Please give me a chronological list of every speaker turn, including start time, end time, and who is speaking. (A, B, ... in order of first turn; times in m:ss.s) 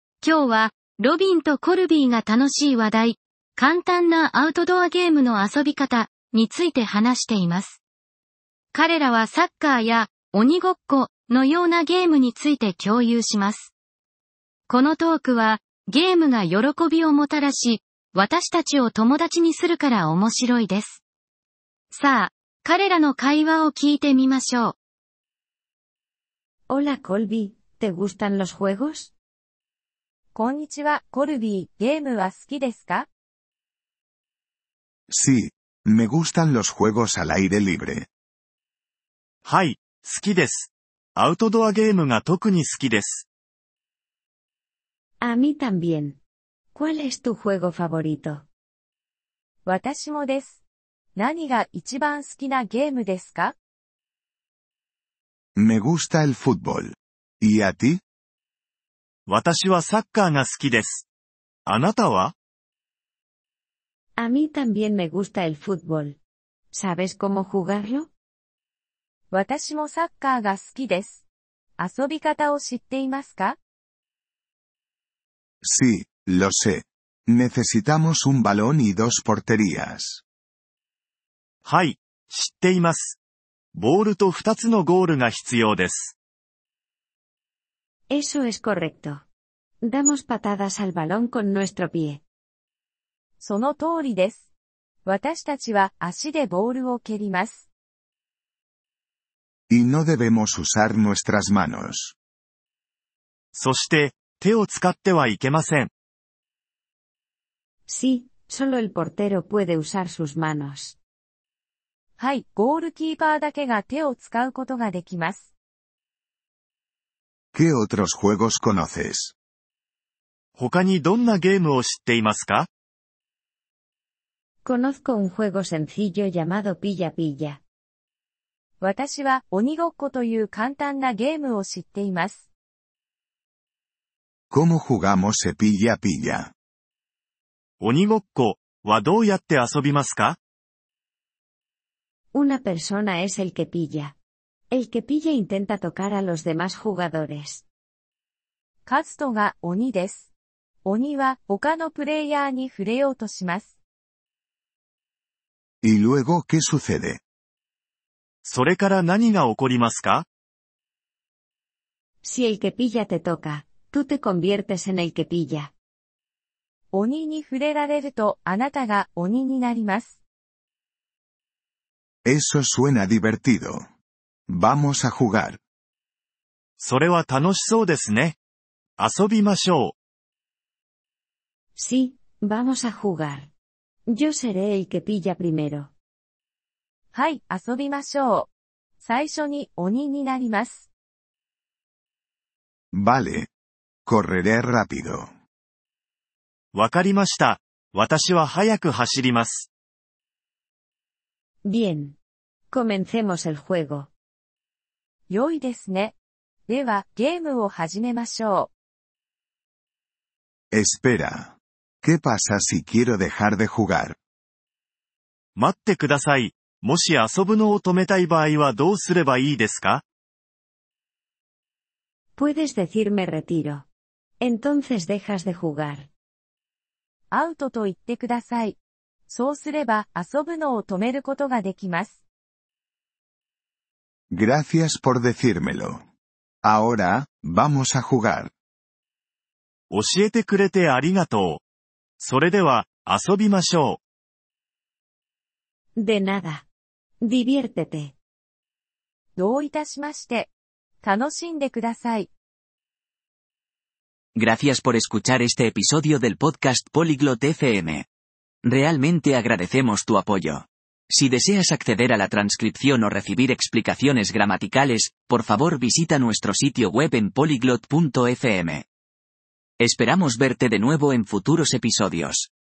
0:00.2-0:07.8 A
0:08.7-0:13.7 A
0:14.7-0:21.0 A
0:21.9-0:24.7 A
0:26.7-0:29.1 B
0:30.3-0:33.1 C
0:35.1-0:38.1 D
0:39.4-0:43.2 E
0:45.2-0:46.2 B
0:46.7-0:48.4 B
0:49.6-0:50.6 C
0:51.2-0:53.5 C
0:55.6-0:58.0 D
0:59.3-1:01.0 E
1:01.6-1:02.3 E
1:04.2-1:06.2 B
1:06.7-1:08.1 B
1:09.3-1:11.2 C
1:11.8-1:13.6 C
1:15.6-1:20.2 D
1:21.6-1:23.2 E
1:23.7-1:26.1 E
1:28.1-1:29.2 B
1:29.8-1:32.2 B
1:33.4-1:34.5 C
1:35.0-1:37.6 C
1:39.7-1:42.1 D
1:43.5-1:45.9 E
1:47.9-1:51.0 B
1:52.2-1:55.5 C
1:57.5-1:59.3 D
2:00.6-2:02.7 E
2:04.6-2:07.6 B
2:08.8-2:12.5 C
2:14.5-2:16.5 D
2:17.8-2:20.4 E
2:22.3-2:24.1 B
2:24.7-2:27.6 B
2:28.8-2:30.3 C
2:30.8-2:33.7 C
2:35.8-2:37.2 D
2:38.4-2:40.2 E
2:42.2-2:45.7 B
2:46.9-2:50.2 C
2:52.2-2:53.8 D
2:54.5-2:55.6 D
2:56.8-2:58.4 E
2:59.0-2:59.9 E
3:01.8-3:03.5 B
3:04.1-3:05.9 B
3:07.1-3:08.5 C
3:09.0-3:10.9 C
3:12.9-3:13.5 D
3:14.0-3:15.3 D
3:16.7-3:19.7 E
3:21.6-3:22.2 B
3:22.7-3:24.1 B
3:25.3-3:26.1 C
3:26.7-3:28.7 C
3:30.7-3:34.2 D
3:35.6-3:40.0 E
3:42.4-3:43.8 B
3:44.4-3:46.1 B
3:47.3-3:48.8 C
3:49.3-3:52.2 C
3:54.3-3:56.0 D
3:56.6-3:58.5 D
3:59.9-4:01.6 E
4:02.2-4:04.0 E
4:06.0-4:06.6 B
4:07.2-4:08.1 B
4:09.4-4:10.5 C
4:11.0-4:12.3 C
4:14.3-4:18.0 F
4:18.6-4:28.8 F
4:29.8-4:32.5 F